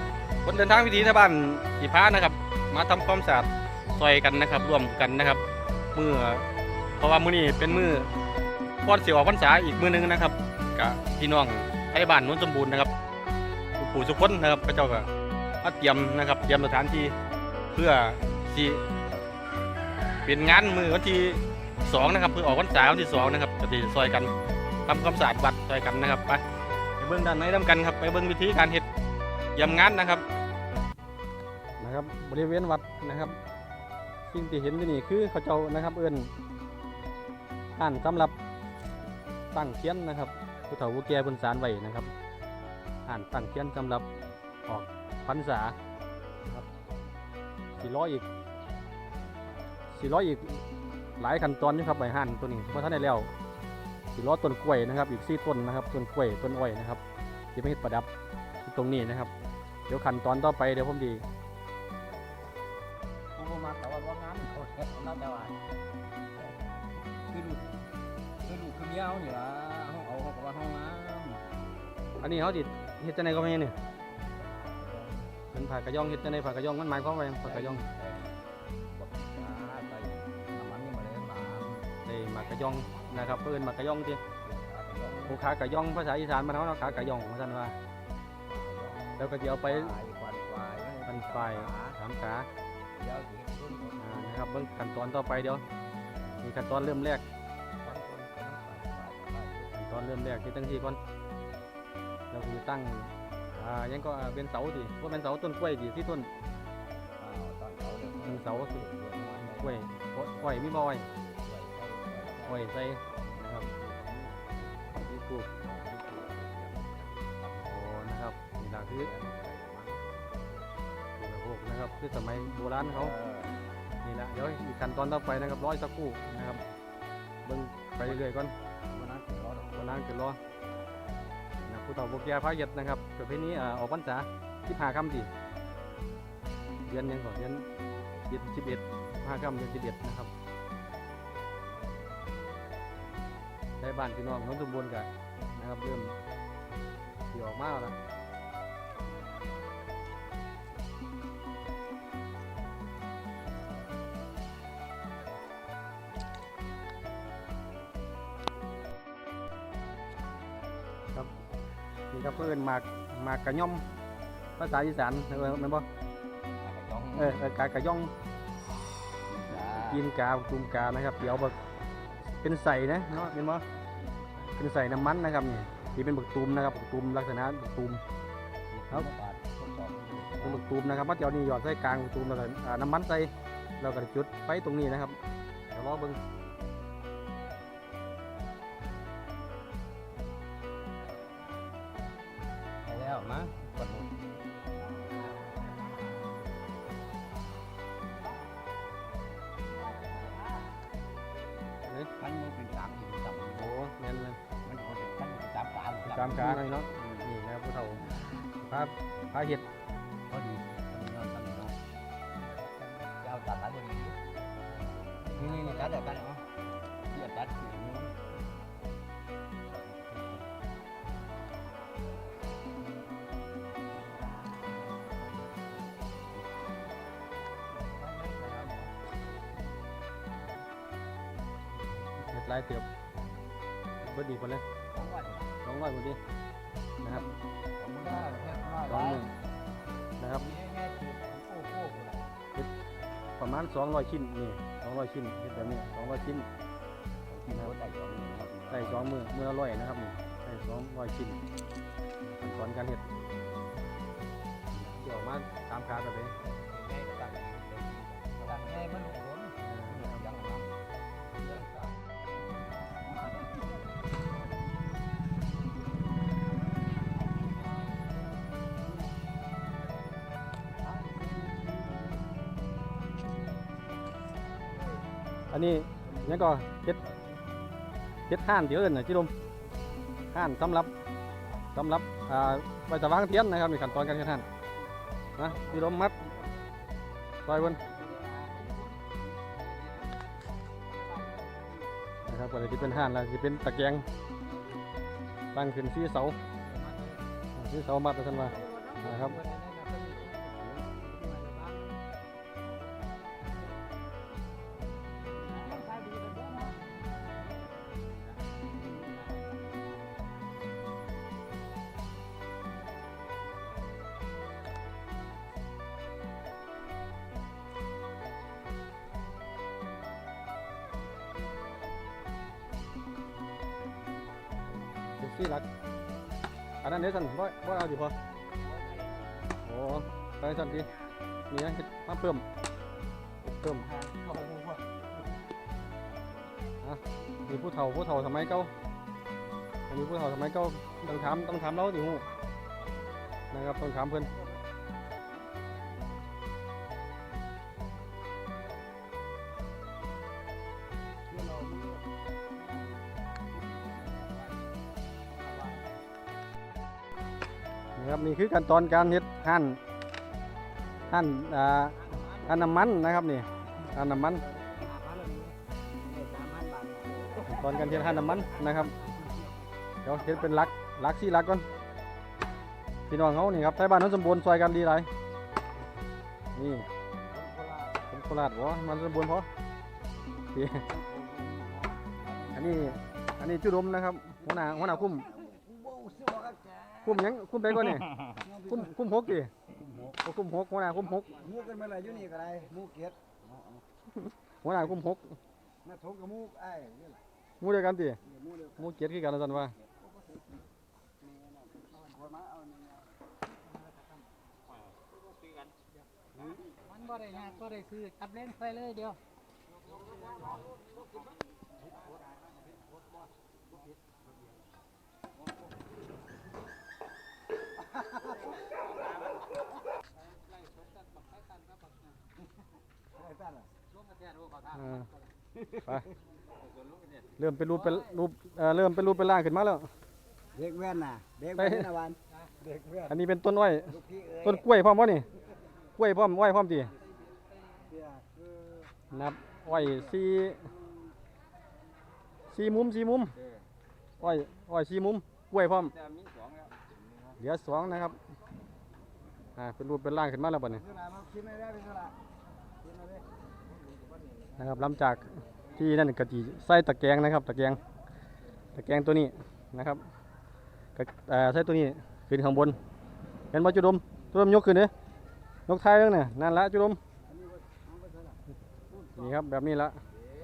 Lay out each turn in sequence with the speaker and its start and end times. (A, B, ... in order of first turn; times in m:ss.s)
0:00.4-0:05.4 A
0:05.9-0:06.4 A
0:07.0-0:08.1 A
0:08.8-0:12.9 A
0:13.8-0:15.1 A
0:15.6-0:17.1 A
0:17.7-0:18.8 A
0:20.2-0:24.3 A
0:24.8-0:26.4 A
0:27.0-0:28.8 A
0:29.6-0:30.2 A
0:31.8-0:33.4 A
0:34.3-0:36.3 A
0:37.8-0:38.3 A
0:39.5-0:42.1 A
0:43.1-0:44.0 A
0:44.7-0:45.8 A
0:47.8-0:48.2 A
0:49.9-0:50.6 A
0:51.2-0:53.3 A
0:54.1-0:57.0 A
0:57.5-0:58.1 A
0:58.6-0:59.3 A
0:59.9-1:01.2 A
1:03.4-1:05.6 B
1:07.3-1:07.7 B
1:08.4-1:11.4 B
1:12.2-1:13.7 A
1:14.3-1:15.3 B
1:15.5-1:17.8 A
1:17.4-1:21.9 B
1:22.0-1:24.2 A
1:22.9-1:23.4 B
1:24.4-1:25.4 B
1:25.3-1:27.7 A
1:28.4-1:32.0 B
1:29.2-1:30.0 A
1:31.0-1:32.5 A
1:32.9-1:34.4 B
1:34.0-1:35.6 A
1:36.4-1:37.2 A
1:37.8-1:39.7 B
1:39.7-1:41.0 A
1:42.3-1:46.3 A
1:47.2-1:57.9 B
1:48.2-1:48.8 A
1:49.6-1:51.0 A
1:52.4-1:53.6 A
1:55.0-1:55.4 A
1:57.6-1:59.1 A
1:58.6-2:00.5 B
2:01.2-2:03.1 A
2:02.9-2:03.6 B
2:04.0-2:06.6 A
2:07.4-2:08.5 A
2:08.8-2:09.9 B
2:09.7-2:10.4 A
2:11.6-2:15.3 A
2:16.8-2:17.6 A
2:18.3-2:20.3 A
2:23.8-2:26.1 A
2:27.3-2:28.0 A
2:42.1-2:43.8 A
2:44.6-2:45.8 A
2:46.6-2:47.4 B
2:47.1-2:48.1 A
2:49.2-2:50.0 B
2:49.8-2:51.5 A
2:52.4-2:53.6 A
2:54.5-2:58.0 A
2:58.7-3:00.6 B
3:00.4-3:05.2 A
3:05.7-3:06.2 A
3:12.8-3:14.1 B
3:21.8-3:22.1 A
3:22.2-3:23.7 B
3:23.5-3:24.4 A
3:24.6-3:27.3 B
3:26.0-3:28.1 A
3:28.6-3:29.6 A
3:30.3-3:31.8 B
3:33.0-3:34.2 B
3:35.3-3:36.4 B
3:37.1-3:38.2 B
3:39.9-3:40.4 B
3:47.8-3:48.9 B
3:52.3-3:52.9 A
3:54.0-3:54.6 A
3:54.9-3:55.5 B
3:55.6-3:56.2 A
3:57.0-3:59.3 B
3:58.8-3:59.3 A
4:00.3-4:02.3 B
4:03.4-4:06.5 A
4:07.3-4:09.2 B
4:08.7-4:11.4 A
4:12.3-4:13.0 A
4:14.7-4:15.0 B
4:14.8-4:16.3 A
4:16.4-4:20.8 B
4:19.6-4:20.3 A
4:30.8-4:32.1 B
4:35.5-4:37.0 A
4:36.0-4:36.4 B
4:38.3-4:39.3 A
4:40.3-4:40.9 A
4:41.7-4:44.4 A
4:45.4-4:46.2 A
4:45.4-4:46.3 B
4:47.4-4:47.8 A
4:48.0-4:48.7 B
4:52.3-4:54.1 A
4:55.5-4:56.4 A
4:57.6-4:59.4 A
4:58.6-5:00.4 C
5:01.1-5:01.9 C
5:05.6-5:06.7 C
5:25.2-5:25.6 A
5:26.8-5:28.1 A
5:28.6-5:29.2 B
5:29.6-5:30.9 A
5:31.5-5:32.4 A
5:33.4-5:33.8 A
5:33.7-5:34.8 B
5:36.8-5:38.7 A
5:39.9-5:42.2 A
5:43.5-5:44.3 A
5:51.3-5:52.0 B
5:53.6-5:54.6 B
5:55.3-5:55.9 B
5:58.0-5:59.8 A
6:01.1-6:04.4 A
6:03.9-6:08.4 B
6:07.5-6:08.9 A
6:10.0-6:11.6 A
6:13.1-6:15.1 A
6:16.6-6:16.9 A
6:17.3-6:18.0 B
6:18.1-6:19.5 A
6:20.5-6:20.8 A
6:20.8-6:23.0 B
6:22.5-6:25.3 A
6:24.5-6:27.3 B
6:27.0-6:29.5 A
6:28.3-6:28.9 B
6:29.8-6:30.2 B
6:30.2-6:31.3 A
6:31.4-6:33.8 B
6:34.2-6:35.4 A
6:35.8-6:37.2 B
6:37.6-6:38.2 A
6:38.3-6:38.8 B
6:38.8-6:39.7 A
6:39.9-6:40.4 B
6:41.2-6:43.0 B
6:46.9-6:49.2 C
7:03.2-7:03.7 B
7:04.0-7:04.8 C
7:04.7-7:05.1 A
7:05.8-7:06.1 A
7:07.4-7:09.9 A
7:10.5-7:13.1 B
7:11.6-7:11.9 A
7:13.0-7:15.2 A
7:13.9-7:14.6 B
7:16.0-7:16.9 A
7:17.9-7:18.4 B
7:19.1-7:20.7 A
7:22.5-7:23.3 A
7:24.2-7:25.9 A
7:26.0-7:26.7 B
7:27.4-7:28.2 A
7:29.6-7:30.8 A
7:30.9-7:32.1 B
7:32.8-7:33.2 B
7:34.6-7:37.8 A
7:38.7-7:40.0 A
7:40.9-7:42.8 A
7:43.5-7:44.9 A
7:45.7-7:47.0 A
7:47.3-7:48.4 B
7:49.1-7:50.0 A